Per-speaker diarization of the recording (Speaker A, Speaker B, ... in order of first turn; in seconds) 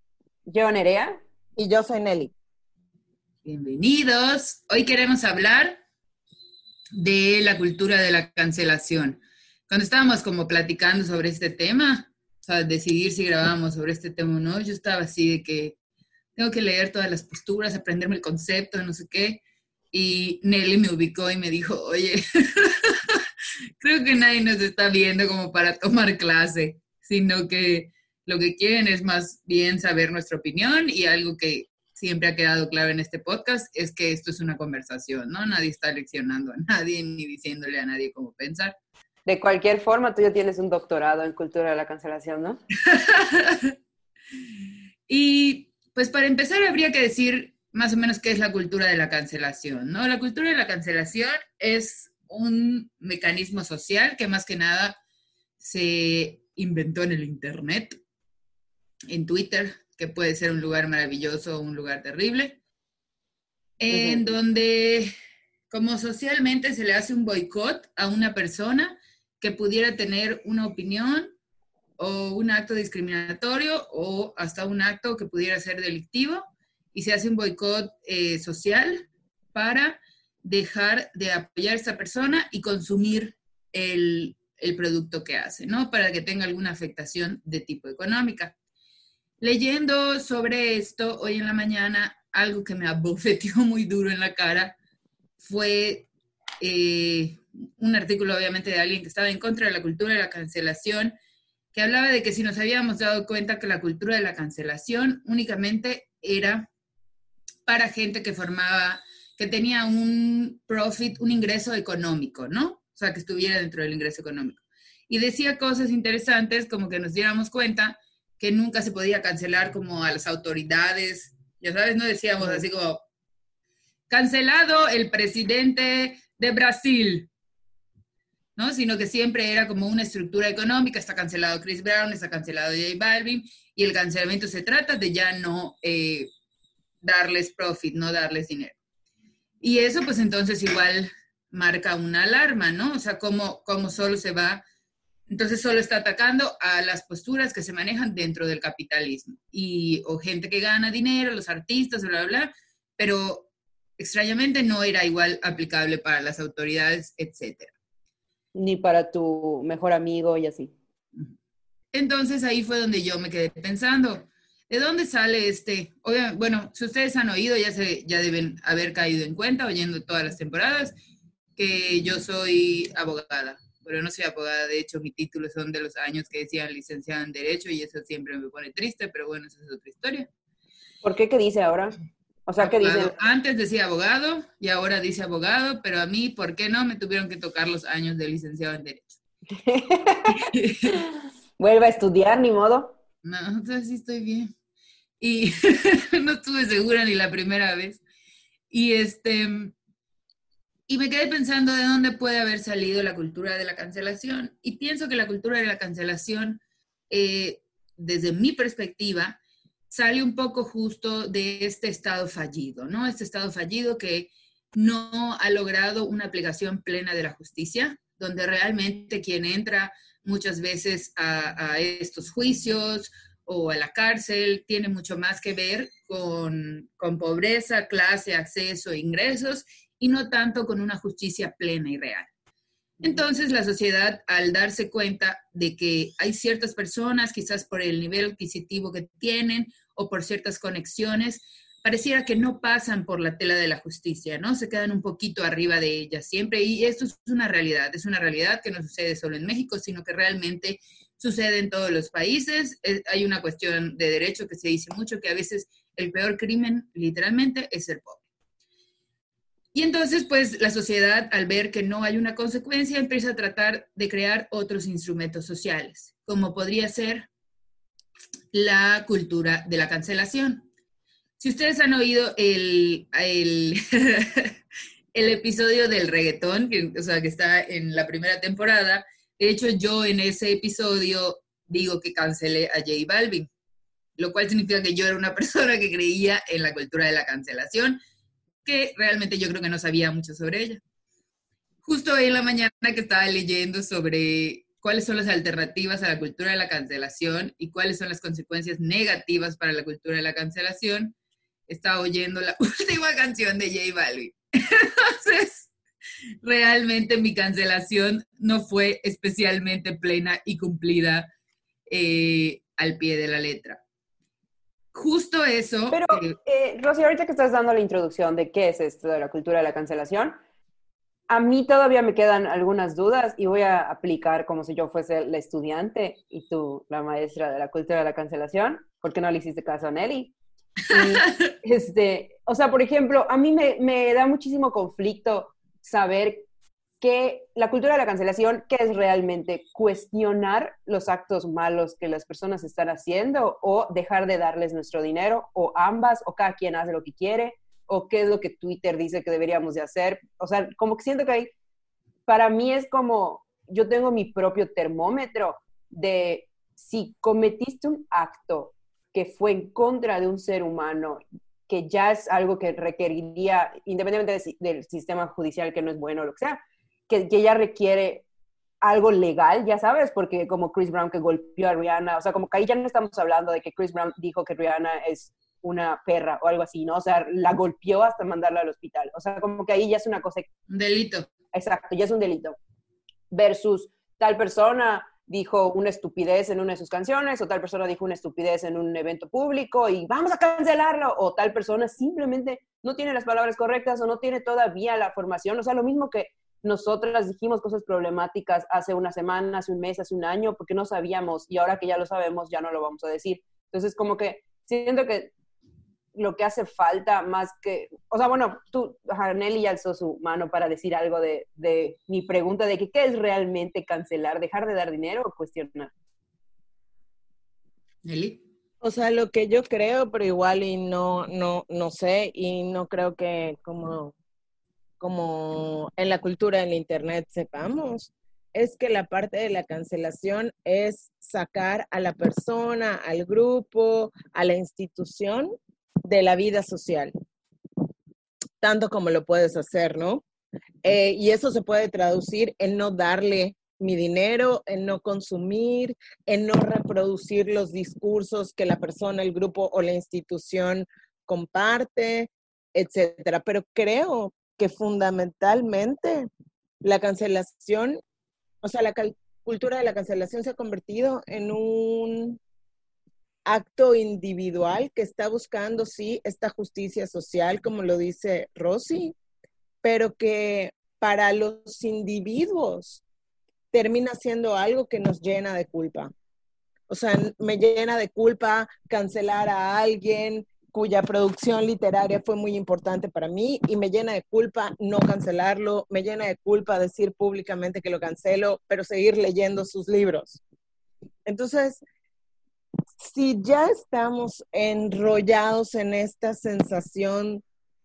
Speaker A: 0.5-1.2, 39.3-42.6, 63.9-64.3, 158.6-160.7, 181.0-182.0, 182.5-183.2, 189.6-191.0, 191.6-192.9, 315.9-320.4, 321.3-330.3, 330.9-336.5, 337.0-351.5, 352.3-368.2, 368.8-380.5, 381.5-382.6, 383.3-405.3, 406.1-415.9
Speaker B: 1.6-2.3, 418.8-424.1, 425.0-435.6, 436.1-437.1, 438.6-440.2, 440.8-456.3, 456.8-458.0, 458.6-462.4, 463.5-469.1, 469.8-473.0, 473.7-476.1, 476.9-490.4, 491.3-491.8, 493.0-497.4
Speaker C: 3.5-5.8, 7.0-15.8, 16.4-23.2, 23.8-38.8, 42.9-43.8, 45.1-55.0, 55.6-58.0, 59.1-62.6, 63.8-65.1, 65.7-71.3, 72.0-88.5, 89.4-94.8, 95.4-96.1, 96.6-101.2, 101.7-106.7, 107.7-123.0, 124.1-127.3, 128.6-136.3, 137.0-138.8, 139.6-144.6, 145.3-153.5, 154.0-157.7, 161.9-170.9, 171.6-180.3, 182.6-189.2, 190.4-191.0, 193.2-194.5, 195.2-198.0, 198.7-199.7, 200.9-209.4, 209.9-232.3, 233.0-258.2, 259.7-267.3, 268.5-270.6, 271.4-274.6, 275.1-283.5, 284.2-288.0, 288.6-290.8, 291.8-301.1, 301.7-305.7, 306.4-311.3, 311.9-313.8, 314.9-316.3, 331.0-331.5, 380.7-381.3, 418.0-418.4